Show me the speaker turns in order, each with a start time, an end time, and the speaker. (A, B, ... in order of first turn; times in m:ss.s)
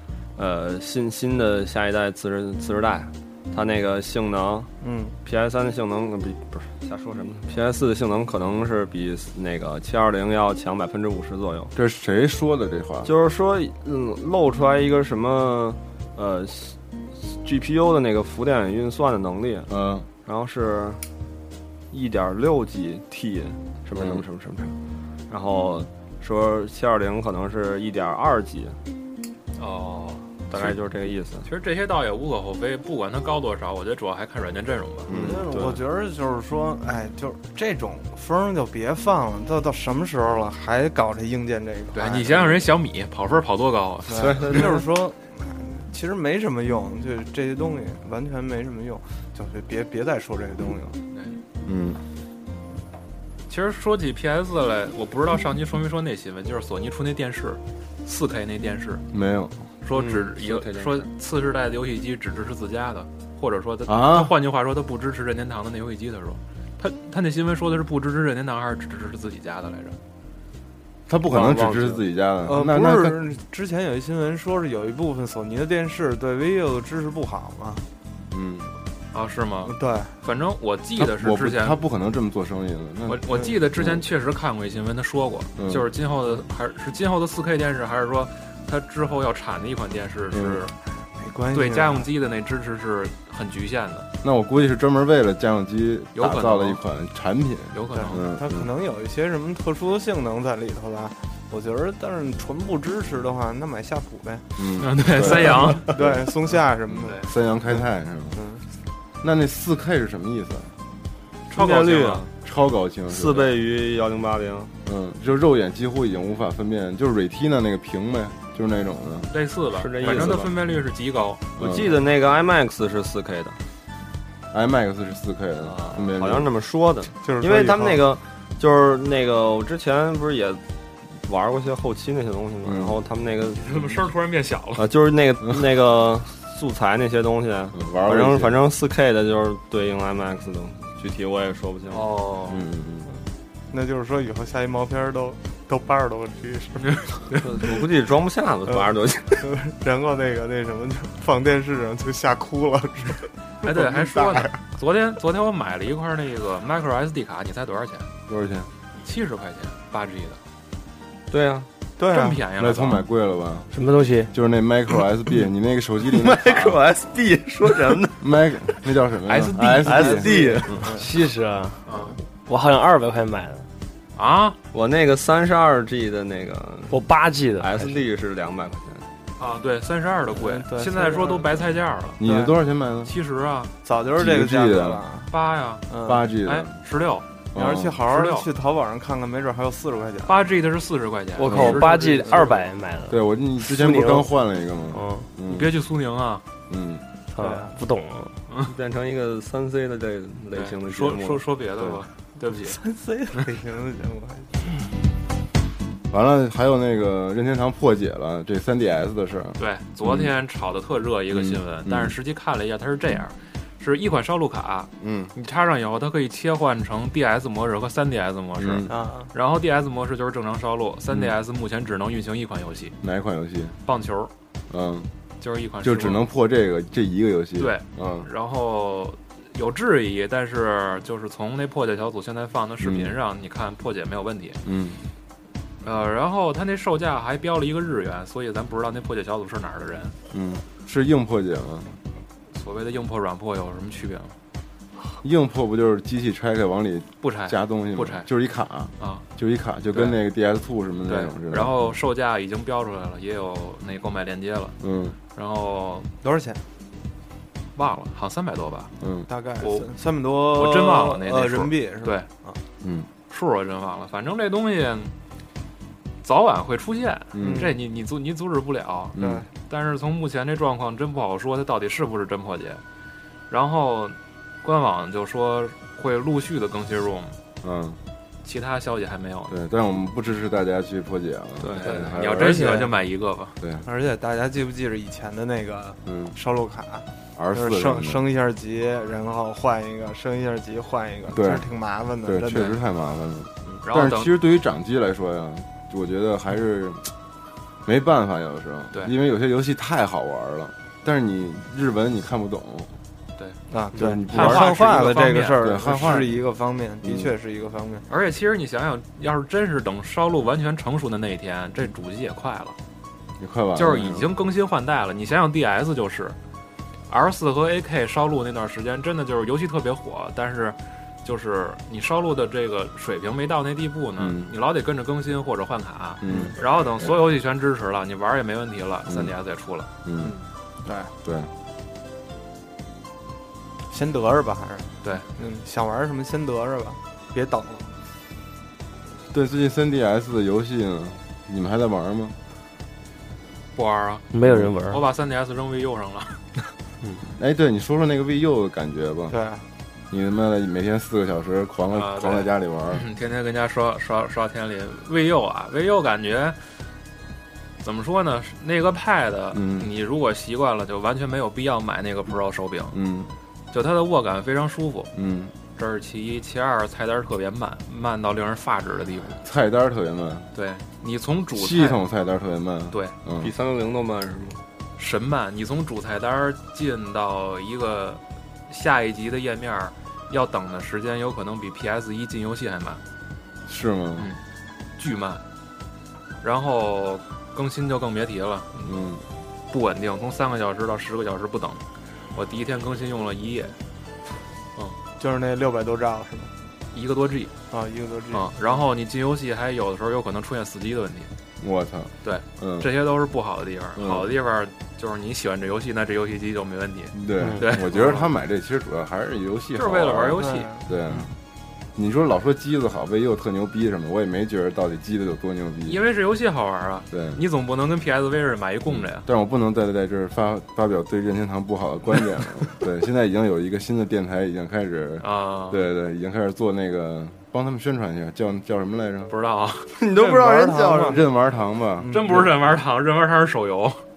0:00.4-0:04.7 A
0:04.8-0:05.2 B
0:05.2-0:11.7 A
0:11.7-0:13.1 C
0:13.0-0:19.7 A
0:19.7-0:20.1 C
0:20.2-0:21.0 A
0:21.9-0:24.7 A
0:23.9-0:24.2 C
0:25.3-0:28.8 A
0:29.6-0:30.3 D
0:30.5-0:31.4 A
0:31.4-0:35.1 D
0:35.1-0:35.4 C
0:35.1-0:42.7 B
0:35.3-0:35.8 A
0:41.9-0:44.7 D
0:44.1-0:51.0 B
0:44.1-0:44.8 A
0:51.1-0:51.4 D
0:51.6-0:52.0 C
0:53.5-0:59.0 D
0:59.1-0:59.6 C
0:59.8-1:10.0 D
0:59.9-1:01.1 A
1:03.8-1:04.3 C
1:11.1-1:13.2 C
1:11.3-1:12.0 A
1:12.4-1:17.8 B
1:18.3-1:18.7 C
1:19.1-1:21.8 D
1:19.6-1:20.1 B
1:21.0-1:24.0 C
1:23.0-1:30.7 D
1:25.6-1:25.9 C
1:30.3-1:30.6 C
1:31.2-1:32.1 B
1:31.5-1:34.1 D
1:34.2-1:38.7 C
1:36.1-1:36.8 D
1:37.7-1:38.2 D
1:37.9-1:44.5 B
1:44.6-1:46.2 C
1:44.8-1:45.9 D
1:45.2-1:48.6 B
1:46.9-1:48.4 C
1:49.2-1:50.7 C
1:51.5-1:52.2 D
1:51.5-1:52.3 A
1:52.4-1:53.6 C
1:53.1-1:54.7 A
1:54.8-1:59.3 C
1:59.3-2:01.4 D
1:59.7-2:00.5 A
2:00.0-2:00.5 C
2:01.6-2:03.6 A
2:01.6-2:01.9 C
2:04.5-2:06.5 C
2:05.6-2:10.6 A
2:07.2-2:08.0 B
2:11.2-2:14.0 A
2:12.6-2:12.9 C
2:13.6-2:14.8 D
2:14.8-2:22.1 A
2:17.7-2:18.6 C
2:21.9-2:22.6 D
2:22.5-2:23.1 C
2:23.7-2:27.1 B
2:27.3-2:29.4 A
2:28.7-2:34.5 B
2:33.6-2:38.1 D
2:38.3-2:38.7 C
2:39.0-2:40.4 D
2:41.3-2:41.7 A
2:42.0-2:42.4 B
2:42.0-2:43.0 D
2:42.5-2:43.7 C
2:43.7-2:44.3 E
2:44.3-2:46.8 C
2:46.1-2:48.2 A
2:48.2-2:50.6 C
2:49.3-2:50.3 D
2:49.7-2:51.8 E
2:50.4-2:51.1 B
2:51.8-2:52.2 D
2:52.4-2:53.7 E
2:54.2-2:54.6 D
2:54.7-2:57.0 A
2:56.9-2:57.9 E
2:57.6-2:59.1 A
2:59.4-3:02.2 D
3:00.3-3:01.6 B
3:02.2-3:03.1 C
3:02.2-3:02.5 B
3:03.0-3:03.7 D
3:03.8-3:05.3 B
3:04.1-3:05.0 C
3:05.3-3:05.8 D
3:05.9-3:06.2 B
3:06.0-3:06.7 C
3:06.4-3:07.3 D
3:07.5-3:08.0 C
3:07.5-3:10.5 B
3:08.0-3:08.5 D
3:10.2-3:12.6 D
3:11.4-3:14.3 E
3:11.5-3:12.5 B
3:13.1-3:15.7 C
3:14.9-3:15.3 E
3:15.5-3:16.4 D
3:16.7-3:17.0 C
3:17.3-3:18.4 E
3:17.4-3:17.7 B
3:18.7-3:21.4 A
3:20.5-3:22.8 D
3:21.8-3:22.0 C
3:22.6-3:24.5 B
3:26.1-3:30.3 C
3:29.6-3:43.0 D
3:31.3-3:32.2 C
3:35.0-3:35.3 C
3:38.6-3:38.9 C
3:38.9-3:39.3 B
3:41.1-3:41.3 C
3:43.0-3:43.7 C
3:43.8-3:44.3 D
3:44.7-3:45.1 C
3:45.4-3:46.2 D
3:45.8-3:48.3 C
3:47.6-3:54.6 D
3:52.8-3:53.1 C
3:54.6-3:55.0 C
3:55.8-4:00.1 D
4:00.3-4:02.0 C
4:02.5-4:04.3 D
4:05.2-4:12.0 C
4:07.2-4:08.2 D
4:09.0-4:09.2 D
4:09.9-4:10.2 D
4:11.0-4:14.8 D
4:14.8-4:15.2 C
4:15.3-4:16.1 D
4:16.2-4:16.6 B
4:17.8-4:18.9 D
4:19.0-4:19.3 C
4:19.3-4:22.6 B
4:19.6-4:19.9 D
4:20.5-4:22.2 D
4:22.8-4:23.1 C
4:23.3-4:25.1 D
4:26.2-4:32.8 D
4:27.3-4:27.7 C
4:27.4-4:27.7 B
4:29.1-4:29.4 C
4:29.2-4:29.4 B
4:33.5-4:37.4 D
4:37.6-4:38.0 C
4:38.4-4:39.5 D
4:39.5-4:42.9 C
4:41.6-4:42.9 A
4:41.8-4:43.6 D
4:43.6-4:43.8 C
4:43.8-4:52.7 B
4:46.0-4:46.3 C
4:47.4-4:48.2 C
4:51.3-4:51.7 C
4:52.2-4:57.1 C
4:53.8-4:54.4 D
4:57.8-5:02.9 C
5:03.7-5:08.0 B
5:03.9-5:04.7 C
5:04.3-5:05.6 D
5:05.6-5:06.4 C
5:07.0-5:07.3 C
5:08.1-5:12.8 D
5:13.4-5:14.3 C
5:13.8-5:16.4 D
5:17.1-5:29.9 D
5:24.2-5:24.5 C
5:26.2-5:27.2 C
5:26.3-5:26.5 B
5:29.1-5:29.3 C
5:30.0-5:30.4 C
5:30.2-5:31.1 B
5:31.2-5:31.5 C
5:33.9-5:37.9 B
5:39.3-5:42.4 C
5:43.7-5:44.3 D
5:44.3-5:45.0 E
5:44.4-5:44.7 C
5:44.9-5:46.4 D
5:47.3-5:49.4 C
5:49.3-5:49.6 B
5:50.1-5:53.0 C
5:51.9-5:56.6 D
5:57.8-6:03.0 D
5:59.5-5:59.9 C
6:02.9-6:03.3 C
6:03.7-6:05.1 D
6:05.1-6:05.5 C
6:05.7-6:09.4 D
6:09.4-6:10.5 C
6:10.5-6:12.0 D
6:11.5-6:13.5 C
6:13.4-6:14.6 A
6:15.0-6:23.0 D
6:23.7-6:24.3 C
6:25.0-6:25.4 D
6:26.4-6:28.9 D
6:28.8-6:29.2 C
6:29.7-6:33.7 D
6:35.2-6:36.5 B
6:36.9-6:37.5 D
6:37.7-6:38.8 B
6:38.3-6:41.3 D
6:41.6-6:42.9 C
6:42.2-6:48.3 D
6:44.0-6:44.3 C
6:47.1-6:51.3 C
6:47.4-6:47.6 E
6:49.7-6:50.7 D
6:50.4-6:50.8 B
6:52.0-6:56.0 C
6:55.8-6:59.2 D
6:57.1-6:57.4 C
6:58.9-7:09.3 C
7:05.2-7:05.8 D
7:09.3-7:09.9 D
7:10.0-7:10.8 A
7:10.1-7:11.2 B
7:10.1-7:12.1 C
7:12.0-7:12.5 B
7:12.1-7:14.0 D